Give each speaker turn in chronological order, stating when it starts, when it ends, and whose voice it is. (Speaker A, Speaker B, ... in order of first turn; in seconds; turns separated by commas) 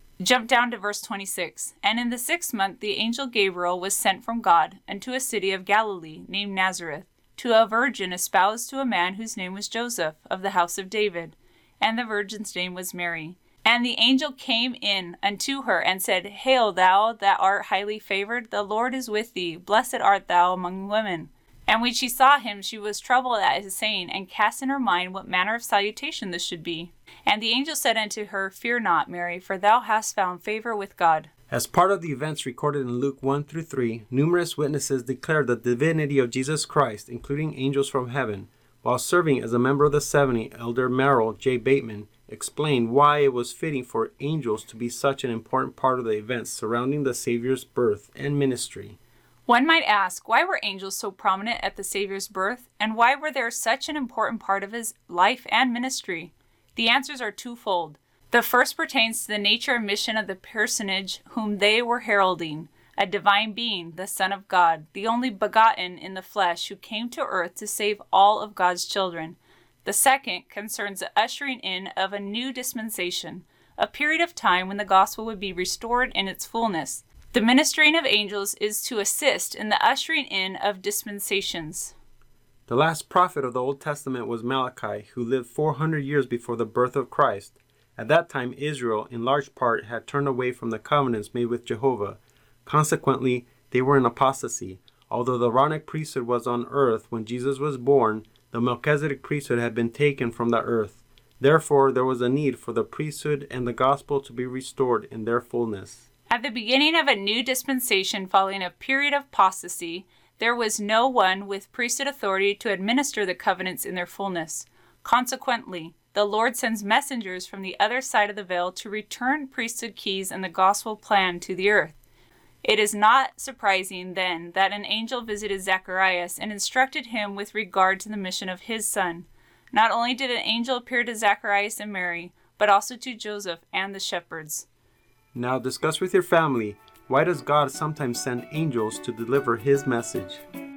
Speaker A: 0.2-31.3, Speaker B: 31.5-49.0, Speaker A: 49.5-82.0, Speaker B: 82.7-106.0, Speaker A: 106.3-122.0, Speaker A: 122.6-134.7, Speaker B: 135.3-140.4